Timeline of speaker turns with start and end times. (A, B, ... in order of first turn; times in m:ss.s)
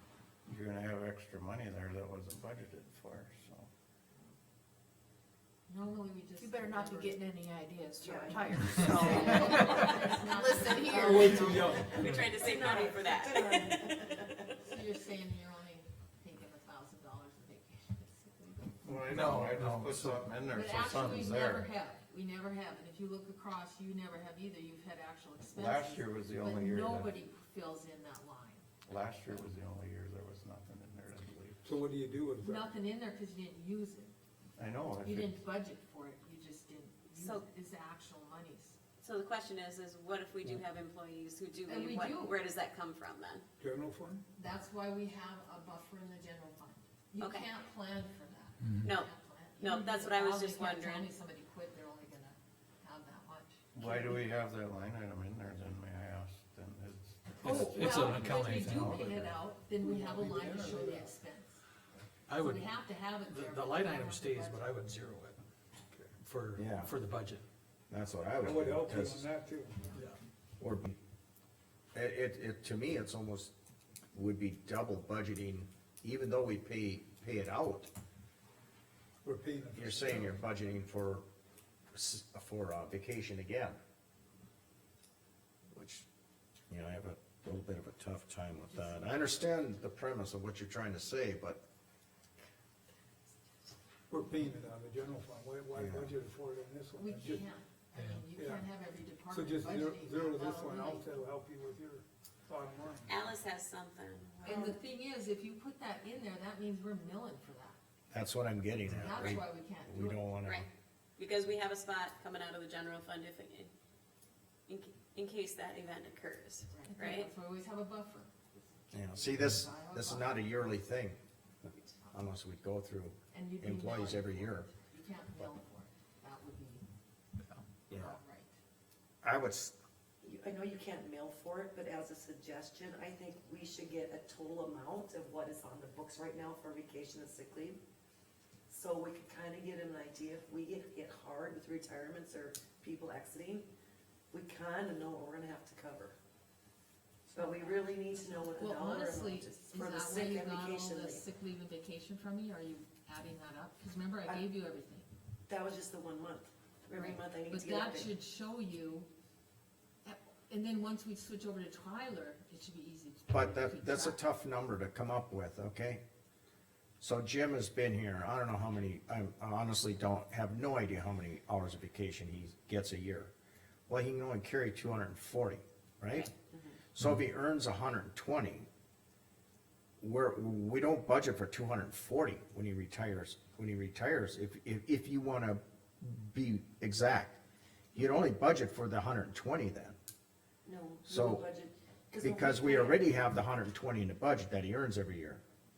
0:00.5-0:03.7 A
0:05.7-0:07.3 B
0:06.4-0:11.8 C
0:08.0-0:09.9 D
0:08.9-0:12.2 B
0:11.0-0:12.2 E
0:11.9-0:12.4 F
0:12.0-0:14.0 G
0:12.2-0:14.6 D
0:14.6-0:18.8 B
0:18.8-0:21.7 A
0:19.0-0:20.3 F
0:20.5-0:28.6 B
0:25.5-0:27.2 A
0:28.8-0:31.7 A
0:31.6-0:32.7 E
0:32.4-0:34.2 B
0:34.6-0:35.4 A
0:35.0-0:38.8 B
0:37.2-0:37.5 G
0:39.0-0:43.4 G
0:41.7-0:42.4 B
0:43.6-0:44.2 E
0:44.4-0:54.2 B
0:47.2-0:47.5 G
0:48.8-0:51.1 G
0:53.7-0:59.3 A
0:57.4-0:59.2 F
0:57.4-1:01.6 B
0:59.8-1:01.1 E
1:02.3-1:05.4 F
1:02.4-1:04.7 B
1:05.9-1:06.2 E
1:06.2-1:07.4 F
1:06.6-1:06.9 H
1:07.9-1:09.3 H
1:08.4-1:10.0 E
1:10.6-1:11.0 H
1:11.9-1:13.5 H
1:14.1-1:17.9 H
1:19.2-1:20.4 E
1:19.8-1:21.2 H
1:21.9-1:23.8 H
1:25.7-1:26.1 H
1:26.7-1:31.6 H
1:28.6-1:29.5 B
1:34.1-1:37.5 E
1:35.8-1:36.1 H
1:37.0-1:41.1 B
1:38.0-1:38.3 F
1:38.3-1:38.7 E
1:39.3-1:43.2 E
1:43.1-1:44.8 G
1:44.4-1:47.8 B
1:44.5-1:44.8 D
1:48.1-1:50.7 H
1:48.9-1:50.2 B
1:50.4-1:53.7 G
1:54.7-1:57.3 G
1:56.7-2:00.4 B
1:58.9-2:01.2 H
2:02.1-2:04.7 H
2:03.3-2:06.9 B
2:07.9-2:08.2 H
2:07.9-2:08.5 B
2:09.2-2:09.8 H
2:10.2-2:17.8 D
2:18.7-2:23.7 D
2:24.3-2:26.1 D
2:27.3-2:31.3 D
2:27.3-2:35.1 B
2:35.5-2:38.2 D
2:37.0-2:39.1 B
2:40.0-2:44.2 B
2:43.3-2:46.0 H
2:47.0-2:53.3 H
2:53.9-2:56.3 H
2:56.5-2:56.8 D
2:56.9-2:58.7 H
3:00.0-3:07.4 H
3:07.9-3:10.0 H
3:10.6-3:13.1 D
3:11.1-3:11.4 H
3:12.2-3:15.4 H